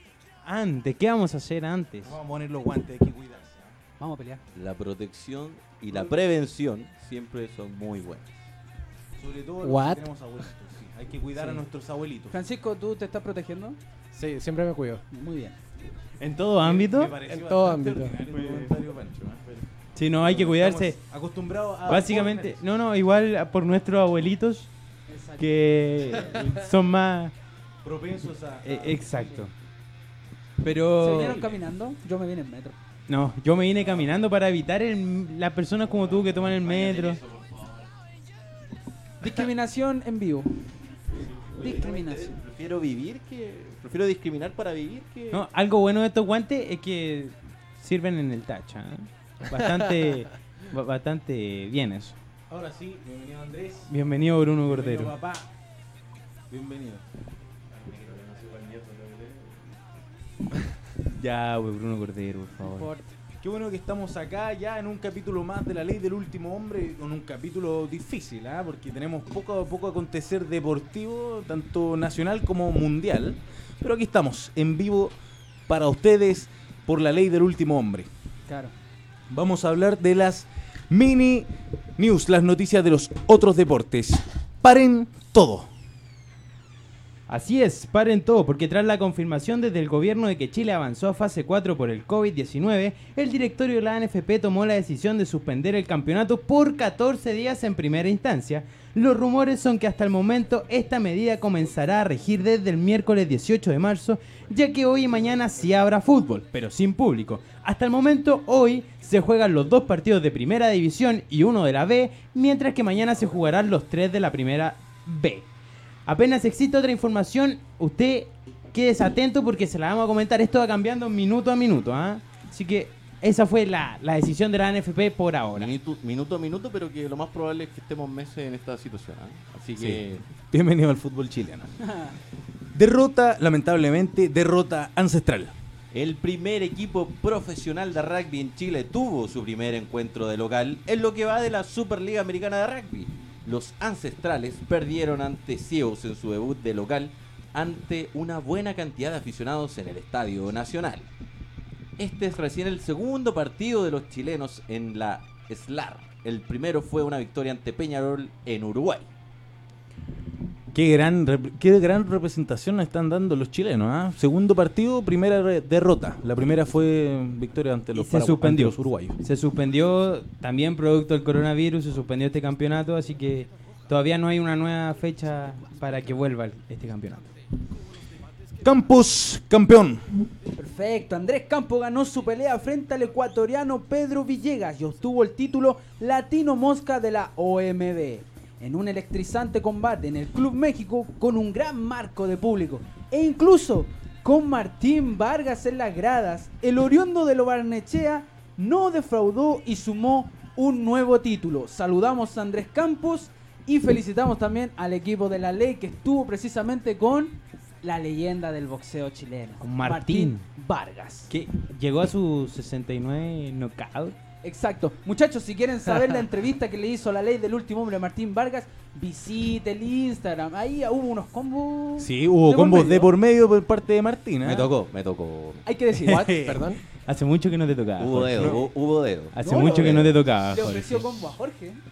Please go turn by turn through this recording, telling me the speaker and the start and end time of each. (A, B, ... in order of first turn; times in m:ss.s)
0:00.4-0:02.2 A
0:02.0-0:03.8 B
0:04.0-0:04.4 C
0:04.5-0:08.4 D
0:09.2-0:12.4 B
0:09.7-0:10.0 E
0:11.4-0:11.6 C
0:12.3-0:13.8 C
0:14.1-0:15.0 E
0:15.1-0:15.6 C
0:16.2-0:17.2 A
0:16.6-0:19.5 B
0:17.2-0:18.7 E
0:20.0-0:21.0 A
0:20.2-0:22.6 B
0:21.9-0:24.7 A
0:25.1-0:25.5 C
0:25.4-0:27.3 A
0:27.8-0:29.1 B
0:28.6-0:29.5 A
0:29.2-0:29.4 C
0:30.6-0:31.5 A
0:31.0-0:32.8 C
0:33.1-0:37.2 A
0:36.4-0:37.9 D
0:39.2-0:40.6 C
0:41.5-0:45.5 D
0:41.6-0:42.4 C
0:45.3-0:52.2 A
0:52.5-0:53.9 B
0:53.9-0:55.1 A
0:54.7-0:55.5 B
0:56.5-0:57.0 B
0:57.8-0:59.6 B
0:58.0-0:59.2 D
1:01.1-1:02.9 A
1:02.6-1:03.2 C
1:03.4-1:15.2 B
1:15.7-1:18.1 B
1:18.5-1:18.7 C
1:19.3-1:25.7 B
1:27.3-1:55.5 A
1:56.1-2:05.7 A
2:05.5-2:10.2 D
2:09.8-2:11.8 B
2:11.9-2:12.2 C
2:12.7-2:15.5 B
2:15.9-2:31.1 D
2:32.0-2:39.1 D
2:40.7-2:49.2 B
2:48.0-2:57.2 A
2:58.6-3:00.2 B
3:00.6-3:31.3 C
3:29.6-3:30.4 A
3:31.3-3:34.2 A
3:34.4-3:43.1 C
3:42.0-3:44.7 B
3:44.4-3:45.6 D
3:45.6-3:46.5 C
3:45.9-3:46.8 B
3:46.1-3:46.8 E
3:47.0-3:48.6 A
3:48.0-3:50.2 D
3:49.3-3:51.1 A
3:49.4-3:51.8 C